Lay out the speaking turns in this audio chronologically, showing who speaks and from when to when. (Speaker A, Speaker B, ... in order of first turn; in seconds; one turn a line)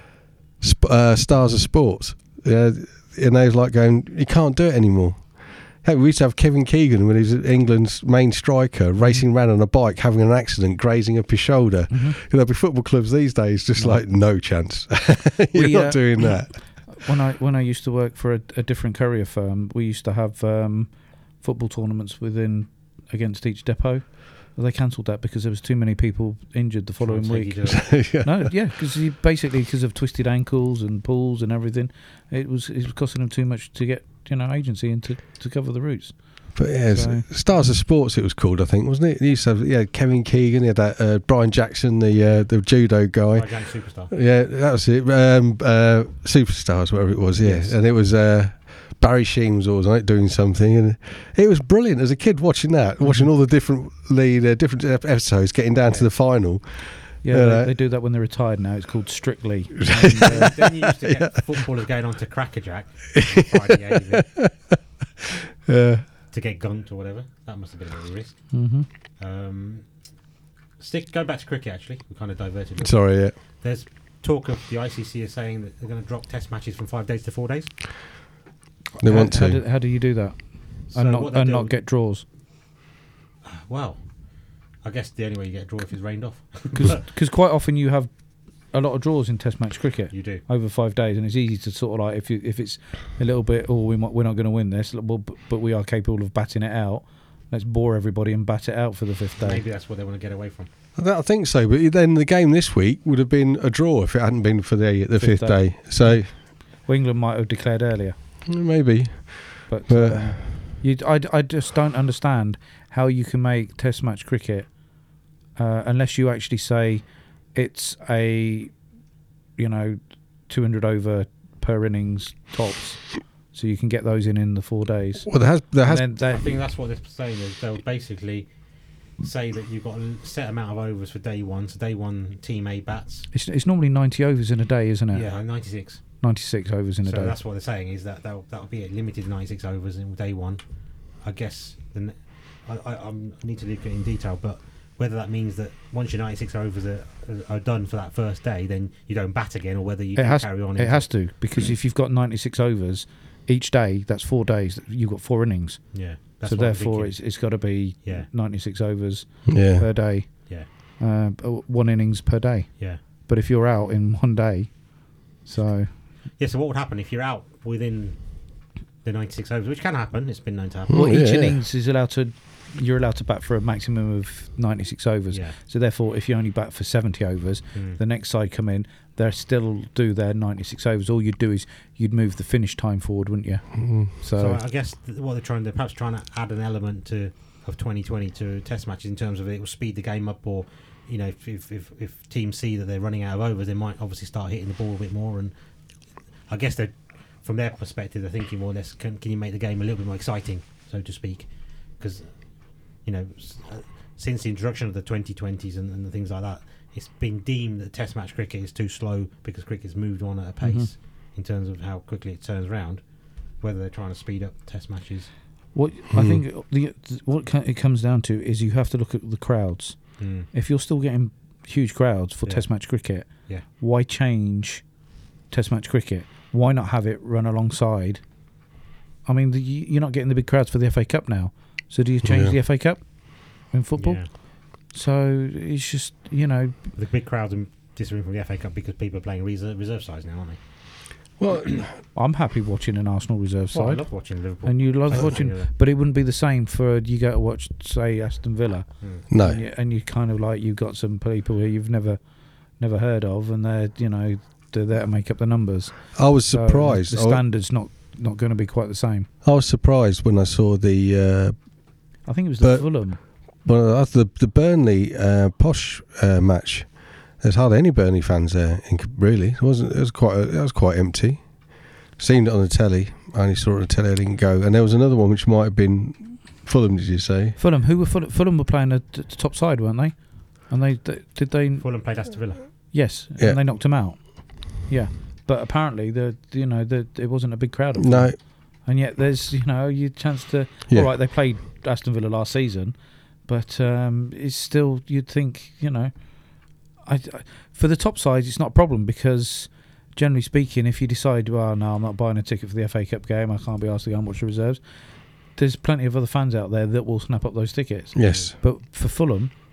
Speaker A: 0.6-16.6
Speaker B: 9.0-9.2
Speaker B: 11.9-12.2
Speaker B: 13.8-14.0
Speaker B: 15.5-37.3
Speaker C: 27.0-28.0
Speaker A: 27.7-28.5
Speaker A: 36.5-57.7
Speaker C: 43.3-44.1
Speaker B: 47.4-47.8
Speaker B: 53.0-53.3
Speaker B: 57.2-60.6
Speaker A: 59.9-61.2
Speaker C: 60.1-64.4
Speaker A: 64.1-64.5
Speaker A: 65.7-66.1
Speaker C: 66.3-68.7
Speaker B: 68.5-68.8
Speaker C: 69.2-69.9
Speaker C: 70.8-77.7
Speaker A: 72.8-73.3
Speaker B: 79.0-82.2
Speaker A: 79.0-79.6
Speaker C: 80.9-81.7
Speaker C: 83.4-84.0
Speaker C: 84.8-87.0
Speaker B: 86.7-88.1
Speaker B: 88.7-99.6
Speaker C: 90.1-90.4
Speaker C: 99.4-100.7
Speaker A: 101.0-106.3
Speaker B: 105.2-108.2
Speaker A: 108.5-110.5
Speaker B: 109.7-114.7
Speaker B: 115.5-118.7
Speaker B: 119.6-125.3
Speaker A: 125.2-126.0
Speaker B: 125.8-126.5
Speaker C: 126.2-128.5
Speaker C: 129.2-133.3
Speaker B: 133.3-135.3
Speaker C: 135.1-136.0
Speaker B: 136.2-137.4
Speaker C: 137.0-140.6
Speaker C: 141.2-151.1
Speaker B: 150.2-164.9
Speaker C: 155.9-158.3
Speaker A: 159.5-159.8
Speaker B: 165.4-165.9
Speaker C: 166.4-168.2
Speaker C: 169.0-170.9
Speaker A: 170.9-171.6
Speaker B: 170.9-184.6
Speaker C: 175.3-175.6
Speaker C: 177.7-178.0
Speaker A: 183.8-184.1
Speaker C: 184.4-195.5
Speaker C: 196.5-202.3
Speaker C: 203.0-213.0
Speaker B: 210.6-210.9
Speaker C: 213.6-215.3
Speaker B: 215.7-220.0
Speaker A: 216.1-216.4
Speaker C: 220.2-220.5
Speaker B: 220.5-223.3
Speaker B: 223.8-224.8
Speaker B: 225.5-228.2
Speaker B: 229.2-233.0
Speaker A: 232.2-232.6
Speaker B: 233.6-234.2
Speaker C: 234.0-234.3
Speaker B: 234.8-236.8
Speaker C: 237.0-240.6
Speaker A: 241.4-242.0
Speaker B: 242.1-252.2
Speaker C: 243.7-245.7
Speaker A: 249.3-249.6
Speaker B: 252.8-259.3
Speaker A: 256.1-257.4
Speaker A: 259.4-261.6
Speaker B: 262.2-263.2
Speaker A: 262.6-262.9
Speaker A: 263.6-271.4
Speaker A: 272.2-277.6
Speaker B: 277.6-280.2
Speaker B: 280.7-281.8
Speaker C: 281.8-282.7
Speaker B: 282.9-292.9
Speaker A: 288.0-288.4
Speaker B: 293.4-296.1
Speaker B: 297.0-304.8
Speaker B: 305.6-309.5
Speaker A: 308.1-308.5